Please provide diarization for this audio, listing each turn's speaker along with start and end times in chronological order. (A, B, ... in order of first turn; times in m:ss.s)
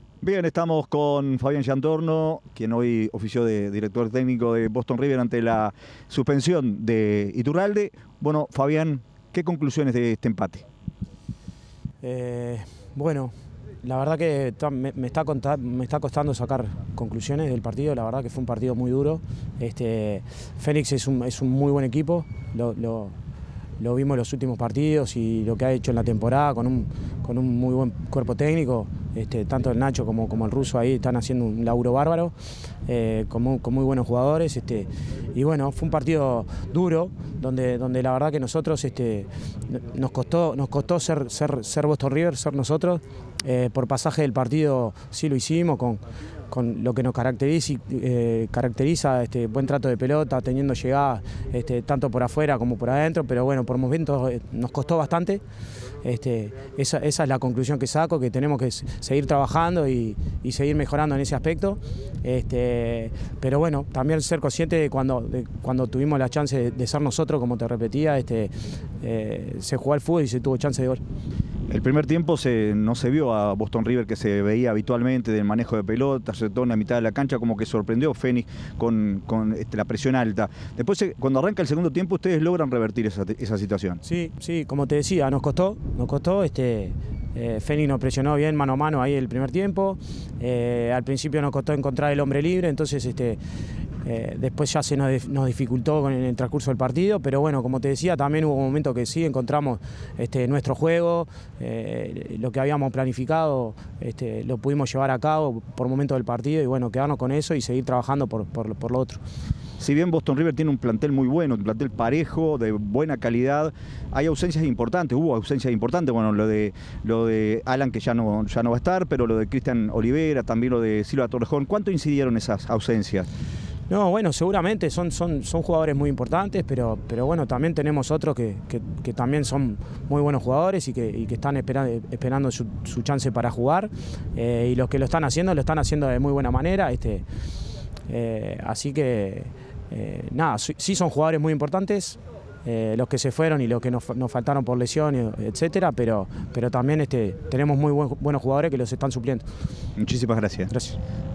0:00.2-0:10.6 A
0:12.0-0:13.3 B
0:13.8-0:23.1 B
0:23.8-0:32.3 B
0:32.8-0:55.4 B
0:56.0-1:11.0 B
1:11.7-1:24.0 A
1:24.0-1:33.4 B
1:34.0-1:49.2 B
1:49.8-2:03.3 A
2:03.9-2:17.2 B
2:18.1-2:29.4 B
2:30.0-2:30.7 A
2:30.7-2:31.0 B